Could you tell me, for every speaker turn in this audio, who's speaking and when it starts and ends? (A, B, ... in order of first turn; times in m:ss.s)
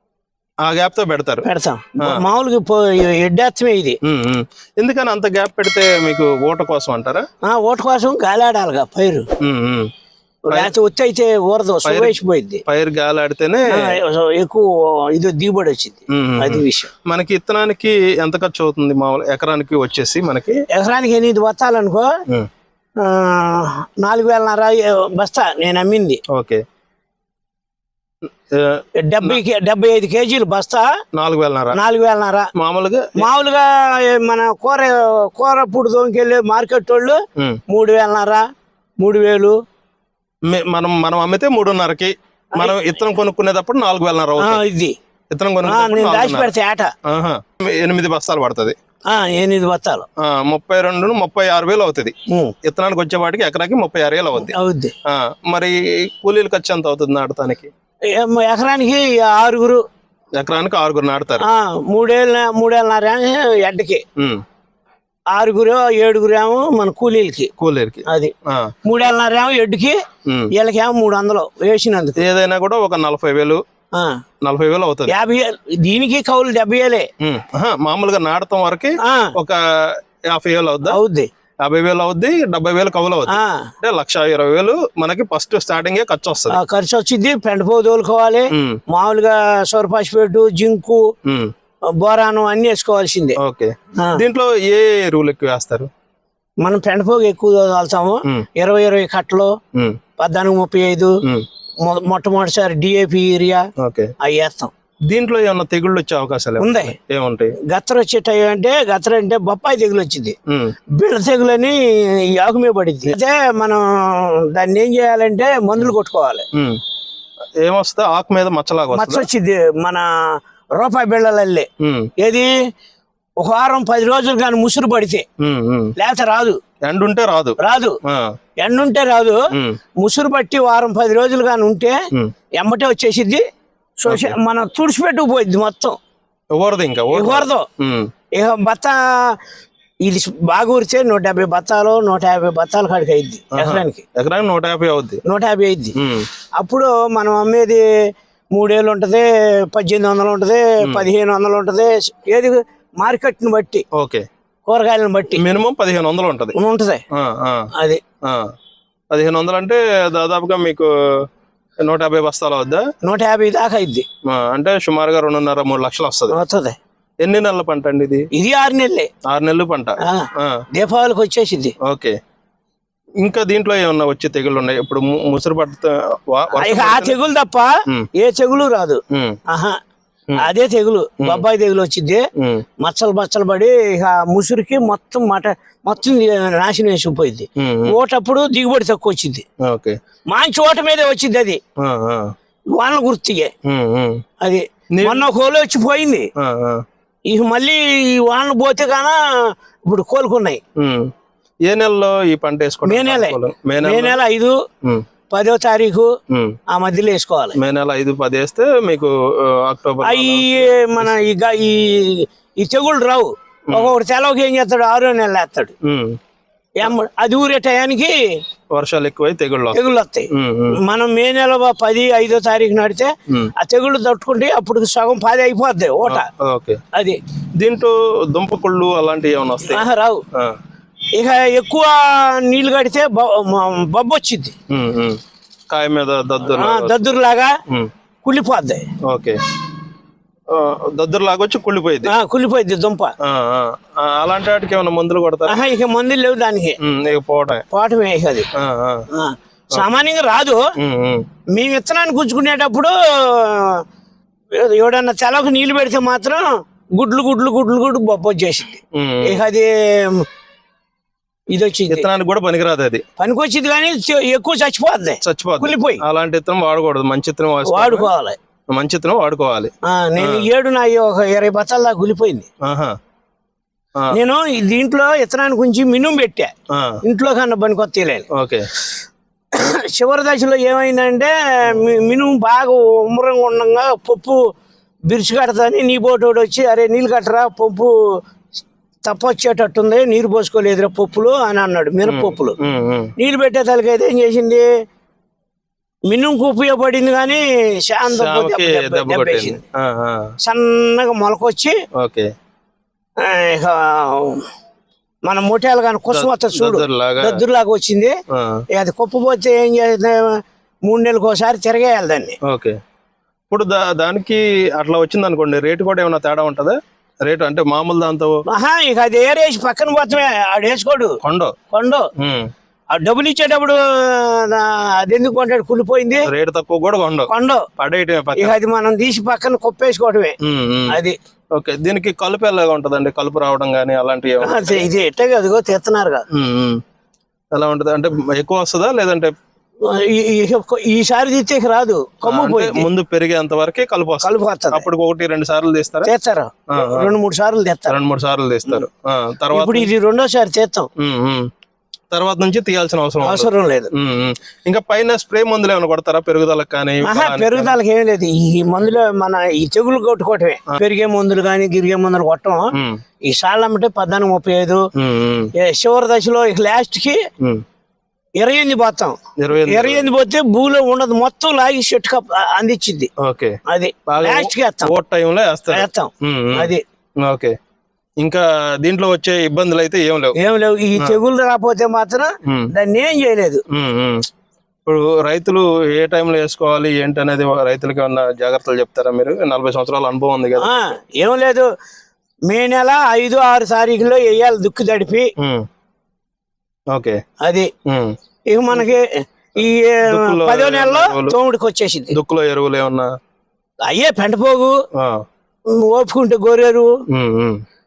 0:00.7-0:01.4 A
0:01.4-0:04.0 B
0:04.0-0:07.3 A
0:07.4-0:09.2 B
0:09.4-0:09.9 A
0:10.5-0:12.6 B
0:11.8-0:13.9 A
0:13.7-0:16.9 B
0:16.1-0:20.6 A
0:20.7-0:22.1 B
0:23.0-0:26.2 B
0:26.3-0:26.6 A
0:28.5-0:29.4 A
0:29.0-0:30.9 B
0:31.2-0:31.8 A
0:31.7-0:32.5 B
0:32.6-0:33.2 A
0:33.2-0:38.4 B
0:39.0-0:39.6 B
0:40.5-0:44.6 A
0:44.4-0:45.0 B
0:45.3-0:46.5 A
0:45.6-0:46.9 B
0:47.1-0:48.8 A
0:49.1-0:50.1 B
0:50.2-0:54.6 A
0:52.3-0:52.5 B
0:54.4-0:54.9 B
0:55.1-0:57.7 A
0:58.1-0:59.8 B
1:00.4-1:01.4 A
1:01.4-1:04.0 B
1:04.2-1:04.4 A
1:05.3-1:07.5 B
1:07.6-1:08.7 A
1:08.1-1:08.3 B
1:08.8-1:10.0 B
1:10.3-1:10.5 A
1:10.5-1:12.2 B
1:12.2-1:13.6 A
1:14.4-1:15.1 A
1:15.1-1:17.1 B
1:17.2-1:21.0 A
1:19.0-1:19.3 B
1:20.9-1:21.3 B
1:21.6-1:26.6 A
1:23.3-1:23.7 B
1:26.5-1:31.0 B
1:28.5-1:28.8 A
1:31.3-1:31.5 A
1:32.0-1:33.4 B
1:33.4-1:35.9 A
1:36.6-1:39.5 B
1:39.8-1:40.0 A
1:40.2-1:41.2 B
1:41.8-1:43.7 B
1:43.8-1:44.1 A
1:44.2-1:44.7 B
1:45.1-1:47.6 A
1:46.6-1:47.0 B
1:47.7-1:50.4 B
1:51.0-1:56.5 B
1:56.5-1:56.8 A
1:57.6-1:59.3 A
1:58.9-2:00.1 B
2:00.8-2:01.7 B
2:01.8-2:02.1 A
2:02.2-2:02.5 B
2:03.4-2:05.2 B
2:05.4-2:05.9 A
2:06.0-2:06.6 B
2:06.9-2:08.2 A
2:07.6-2:08.0 B
2:08.6-2:09.4 B
2:09.5-2:09.8 A
2:10.0-2:12.0 B
2:12.6-2:13.4 B
2:14.0-2:16.0 B
2:14.1-2:14.4 A
2:16.6-2:18.1 A
2:17.1-2:17.7 B
2:18.4-2:19.4 B
2:20.0-2:24.0 B
2:23.6-2:25.2 A
2:25.3-2:26.0 B
2:26.0-2:26.3 A
2:26.6-2:27.8 B
2:28.6-2:33.8 B
2:33.9-2:34.2 A
2:34.7-2:35.4 B
2:35.4-2:36.6 A
2:36.6-2:37.0 B
2:37.1-2:37.7 A
2:37.8-2:38.0 B
2:38.2-2:38.5 A
2:39.1-2:40.9 A
2:41.8-2:42.8 A
2:43.0-2:44.1 B
2:44.3-2:46.4 A
2:46.3-2:46.8 B
2:47.2-2:48.3 A
2:48.3-2:49.1 B
2:49.3-2:50.6 A
2:50.0-2:51.8 B
2:51.8-2:52.2 A
2:53.2-2:57.2 A
2:56.6-2:59.8 B
2:59.1-2:59.4 A
3:00.4-3:02.3 B
3:02.4-3:02.6 A
3:02.8-3:09.4 B
3:07.6-3:08.0 A
3:09.6-3:10.0 A
3:10.3-3:11.6 B
3:11.8-3:12.3 A
3:12.8-3:13.5 B
3:13.7-3:14.2 A
3:14.4-3:16.3 B
3:15.0-3:15.2 A
3:16.4-3:16.8 A
3:17.3-3:19.2 B
3:19.8-3:20.6 B
3:20.8-3:21.1 A
3:21.7-3:24.2 A
3:22.8-3:24.6 B
3:25.3-3:26.1 B
3:26.3-3:26.6 A
3:26.7-3:27.6 B
3:27.6-3:31.1 A
3:30.0-3:35.7 B
3:35.8-3:36.2 A
3:36.8-3:38.2 B
3:38.8-3:40.8 A
3:39.7-3:46.3 B
3:46.1-3:46.8 A
3:47.6-3:50.5 A
3:49.7-3:50.2 B
3:51.2-3:54.6 B
3:54.7-3:57.0 A
3:56.4-3:57.6 B
3:58.2-3:58.8 B
3:59.0-3:59.4 A
4:00.5-4:02.1 A
4:02.0-4:03.1 B
4:03.2-4:05.6 A
4:05.5-4:06.8 B
4:06.8-4:07.6 A
4:07.7-4:08.5 B
4:08.6-4:09.1 A
4:09.1-4:10.6 B
4:10.8-4:11.2 A
4:11.5-4:13.8 B
4:14.6-4:20.3 B
4:18.9-4:19.4 A
4:21.5-4:22.1 B
4:21.9-4:23.0 A
4:23.2-4:26.0 B
4:25.2-4:28.1 A
4:27.7-4:28.4 B
4:28.7-4:30.5 A
4:29.9-4:32.5 B
4:32.6-4:33.0 A
4:34.1-4:36.5 B
4:36.7-4:37.0 A
4:37.0-4:38.3 B
4:38.3-4:38.7 A
4:39.5-4:44.4 B
4:45.1-4:47.9 B
4:49.1-4:52.6 B
4:52.0-4:53.1 A
4:53.2-4:54.7 B
4:56.1-4:59.6 B
4:58.1-5:00.3 A
5:00.4-5:01.8 B
5:02.0-5:02.3 A
5:03.2-5:04.5 B
5:05.3-5:08.2 B
5:06.1-5:07.4 A
5:08.3-5:08.6 A
5:08.7-5:12.4 B
5:12.4-5:12.8 A
5:13.5-5:18.4 A
5:18.5-5:21.2 B
5:21.2-5:21.6 A
5:21.7-5:22.1 B
5:22.2-5:22.5 A
5:22.9-5:26.3 B
5:26.3-5:28.6 A
5:27.3-5:27.7 B
5:28.4-5:30.4 B
5:30.4-5:31.0 A
5:30.9-5:31.2 B
5:31.6-5:34.9 A
5:34.4-5:36.2 B
5:36.3-5:36.8 A
5:37.5-5:39.3 A
5:39.8-5:42.9 B
5:42.3-5:46.1 A
5:44.2-5:44.9 B
5:46.0-5:48.0 B
5:46.7-5:47.1 A
5:47.9-5:49.9 A
5:49.5-5:50.9 B
5:51.0-5:51.5 A
5:52.1-5:57.7 A
5:53.2-5:53.9 B
5:57.0-6:02.7 B
6:02.7-6:03.0 A
6:03.3-6:04.8 B
6:05.0-6:05.5 A
6:05.6-6:07.2 B
6:08.4-6:13.1 B
6:09.4-6:10.1 A
6:13.2-6:16.7 A
6:13.7-6:14.9 B
6:15.7-6:16.8 B
6:17.2-6:17.6 A
6:18.2-6:20.4 A
6:20.4-6:23.6 B
6:22.5-6:22.7 A
6:23.7-6:24.2 A
6:24.9-6:30.7 A
6:30.6-6:31.7 B
6:32.5-6:35.3 B
6:35.4-6:35.7 A
6:36.9-6:37.2 A
6:37.4-6:37.7 B
6:37.9-6:38.1 A
6:38.5-6:42.2 B
6:40.1-6:41.4 A
6:42.1-6:43.1 A
6:43.9-6:44.8 B
6:45.0-6:45.2 A
6:45.7-6:46.9 B
6:47.1-6:47.6 A